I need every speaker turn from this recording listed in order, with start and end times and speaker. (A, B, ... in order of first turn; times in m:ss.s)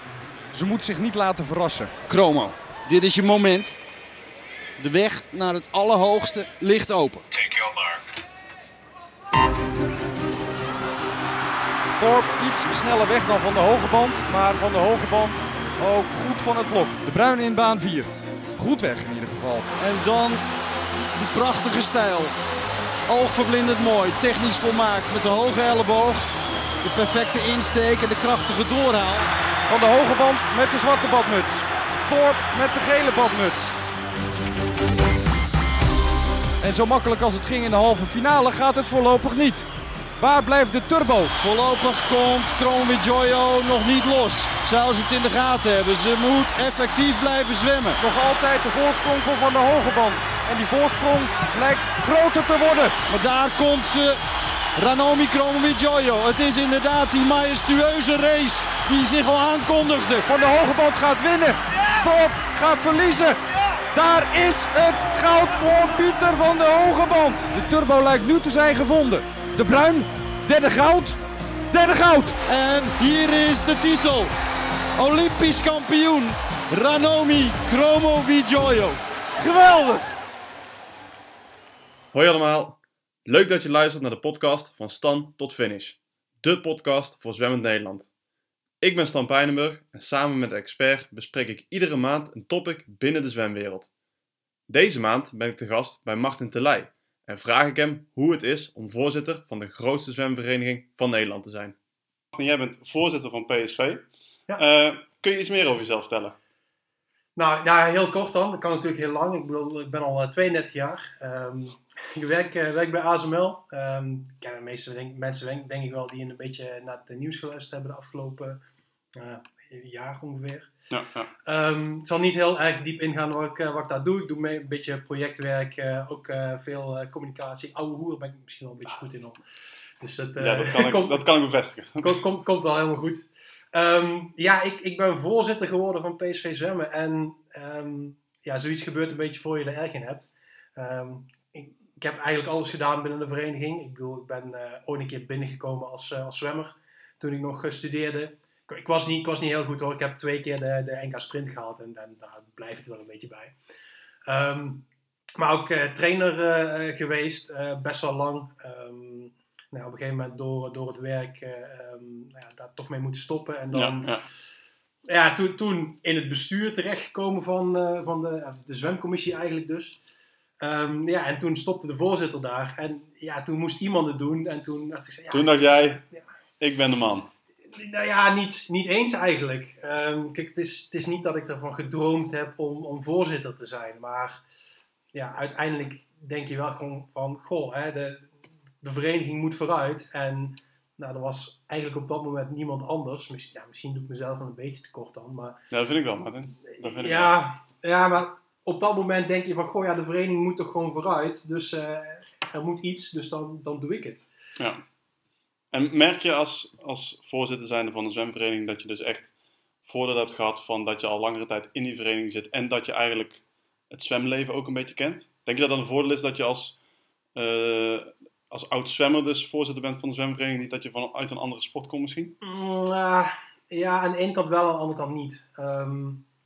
0:00.5-0:01.9 A
0:02.1-0:03.8 B
0:04.8-0:07.8 B
0:11.9-0:19.7 A
0:19.8-0:20.4 B
0:21.1-0:22.3 B
0:23.1-0:26.3 B
0:26.8-0:29.3 B
0:29.7-0:33.7 A
0:36.6-0:39.7 A
0:40.2-0:41.3 A
0:41.4-0:48.0 B
0:48.0-0:53.0 A
0:53.1-0:54.2 B
0:54.8-1:00.3 B
1:00.2-1:03.4 A
1:03.9-1:11.2 A
1:11.7-1:12.4 A
1:12.4-1:14.3 B
1:15.0-1:19.0 B
1:19.4-1:20.0 A
1:22.1-1:28.1 C
1:28.8-1:33.9 C
1:34.7-1:41.8 C
1:42.3-1:44.0 C
1:44.6-1:46.4 C
1:47.4-1:58.6 D
1:59.2-2:00.7 D
2:00.9-2:01.3 C
2:01.4-2:09.4 D
2:10.0-2:11.2 D
2:10.4-2:12.2 C
2:12.0-2:33.5 D
2:34.3-2:34.9 D
2:35.4-2:44.1 D
2:43.7-2:44.2 C
2:45.1-2:50.0 D
2:50.6-2:56.2 D
2:55.3-2:56.0 C
2:56.6-2:57.3 C
2:57.7-3:04.4 D
3:05.1-3:08.3 D
3:08.8-3:15.6 D
3:15.7-3:17.3 C
3:16.7-3:24.2 D
3:24.6-3:24.8 C
3:25.7-3:29.3 C
3:29.8-3:36.8 C
3:37.3-3:42.3 C
3:42.4-3:46.2 D